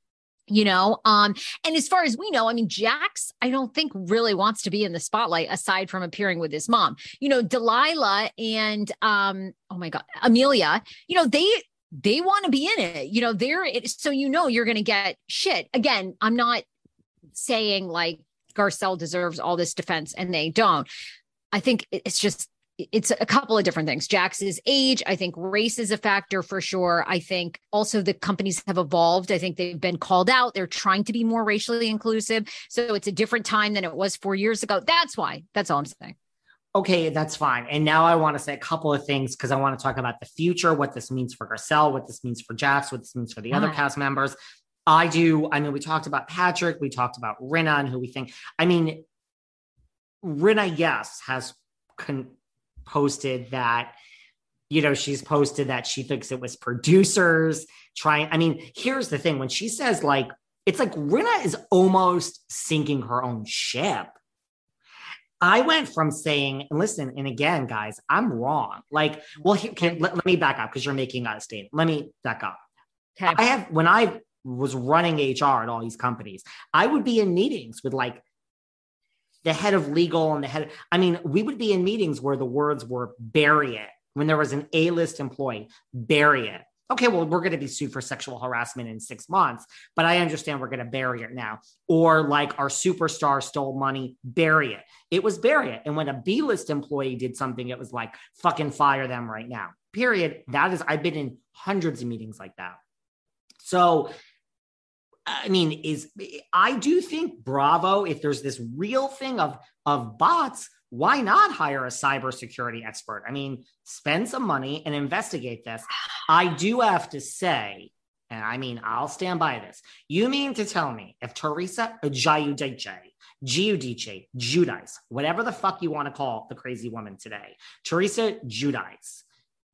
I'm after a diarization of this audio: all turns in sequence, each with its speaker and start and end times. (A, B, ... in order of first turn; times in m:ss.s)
0:00.5-0:16.6 A
0:17.4-0:20.9 A
0:21.5-0:36.2 A
0:36.7-0:44.4 B
0:43.5-0:43.8 A
0:44.9-0:49.0 B
0:50.2-0:52.3 B
0:52.9-0:54.0 B
0:54.7-1:04.2 B
1:05.4-1:12.6 B
1:13.2-1:13.4 A
1:13.3-1:18.2 B
1:19.4-1:42.8 B
1:43.6-1:44.1 B
1:45.3-2:09.2 B